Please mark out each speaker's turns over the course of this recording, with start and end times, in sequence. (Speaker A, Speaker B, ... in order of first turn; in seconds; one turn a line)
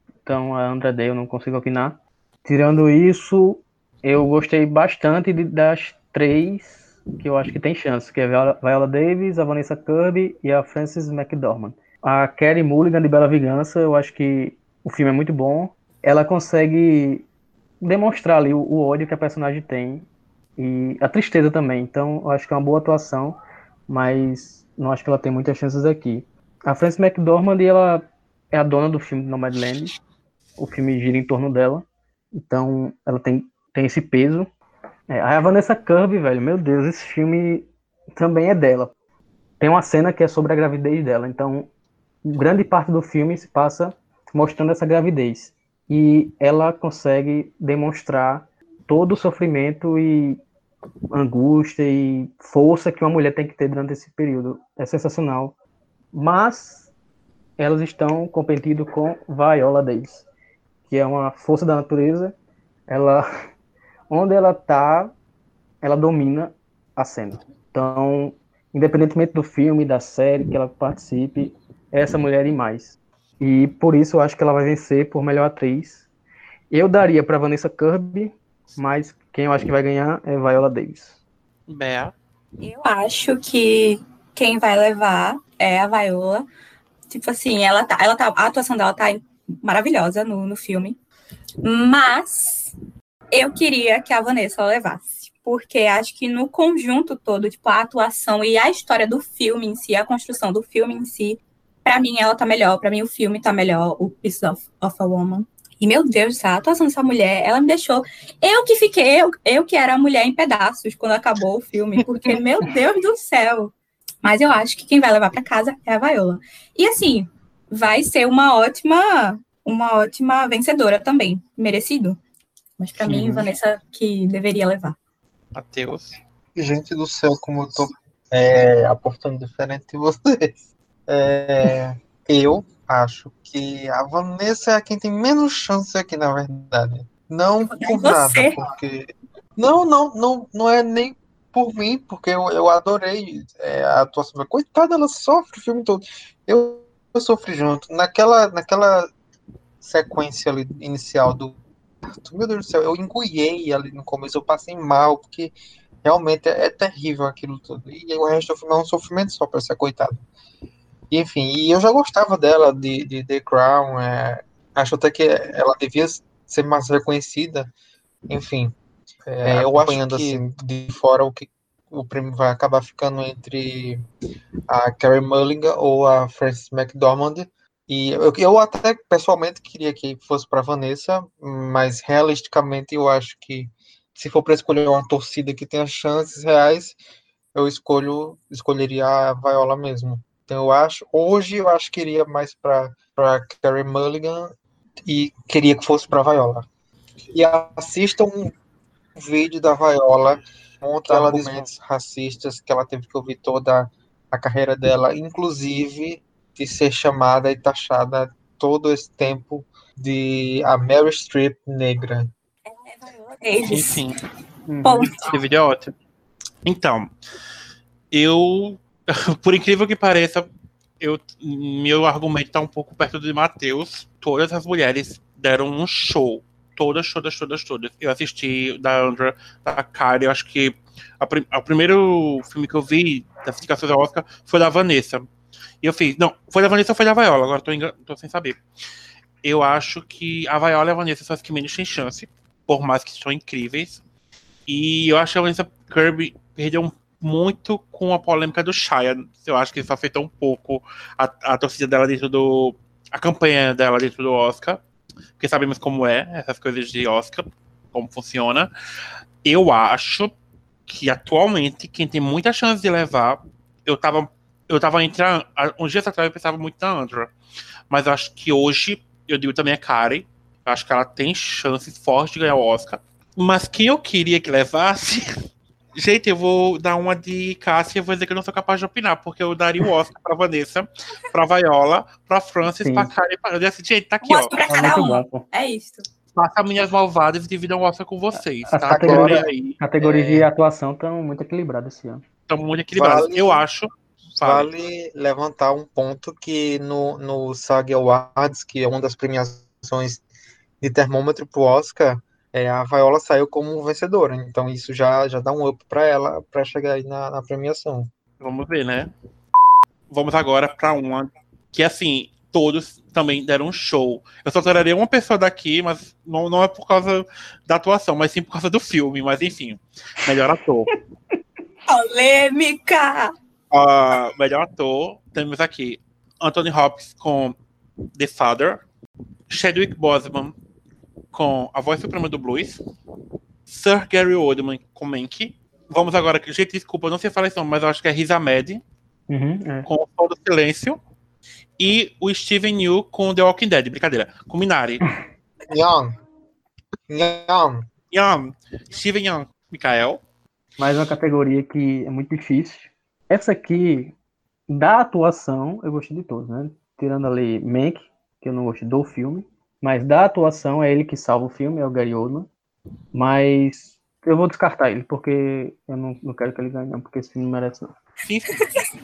Speaker A: 0.2-17.3
Speaker A: 17.8-29.9
Speaker A: 30.6-31.9
Speaker A: 32.4-34.5
Speaker A: 35.1-39.0
Speaker A: 39.6-41.7
Speaker A: 42.3-50.4
Speaker A: 51.1-55.5
Speaker A: 56.1-56.9
Speaker A: 57.6-60.3
Speaker A: 60.9-62.4
Speaker A: 62.9-63.2
Speaker A: 64.1-65.1
Speaker A: 65.8-76.1
Speaker A: 76.7-81.2
Speaker B: 81.7-82.1
Speaker C: 82.6-86.5
Speaker C: 87.1-91.0
Speaker C: 91.6-92.8
Speaker C: 93.3-122.2
Speaker C: 122.8-125.0
Speaker A: 123.1-123.4
Speaker B: 125.5-126.2
Speaker D: 126.6-130.5
Speaker D: 131.1-149.1
Speaker C: 137.7-138.6
Speaker D: 149.8-160.2
Speaker D: 161.1-167.7
Speaker D: 168.3-168.8
Speaker D: 169.3-174.0
Speaker A: 169.5-170.4
Speaker D: 174.7-187.0
Speaker D: 187.6-194.5
Speaker D: 195.1-196.7
Speaker D: 197.3-198.5
Speaker D: 199.2-212.3
Speaker B: 201.1-201.6
Speaker C: 212.7-214.1
Speaker B: 213.7-214.1
Speaker A: 214.7-215.1
Speaker C: 214.8-215.3
Speaker B: 215.0-215.9
Speaker B: 216.7-217.1
Speaker B: 218.1-220.5
Speaker B: 221.0-235.3
Speaker B: 235.8-238.6
Speaker B: 239.4-244.0
Speaker B: 244.7-254.8
Speaker B: 255.4-258.7
Speaker B: 259.4-260.3
Speaker B: 260.9-267.3
Speaker B: 267.9-275.4
Speaker B: 275.9-284.6
Speaker A: 282.7-283.1
Speaker C: 284.2-286.1
Speaker A: 284.7-285.4
Speaker B: 286.4-289.8
Speaker A: 288.7-292.2
Speaker D: 288.9-289.5
Speaker D: 290.0-290.5
Speaker B: 292.5-294.7
Speaker D: 292.9-293.6
Speaker D: 294.4-300.2
Speaker D: 300.8-308.1
Speaker B: 308.4-309.1
Speaker B: 310.1-320.9
Speaker C: 321.9-323.3
Speaker B: 323.7-327.6
Speaker B: 328.2-328.8
Speaker B: 329.5-330.6
Speaker B: 331.3-332.8
Speaker B: 333.7-338.8
Speaker A: 339.3-339.9
Speaker B: 339.9-341.0
Speaker B: 341.8-345.0
Speaker D: 345.7-346.1
Speaker D: 347.1-347.9
Speaker B: 348.1-350.2
Speaker A: 350.8-354.1
Speaker A: 354.7-362.5
Speaker A: 363.1-367.9
Speaker B: 368.2-368.5
Speaker C: 368.6-368.9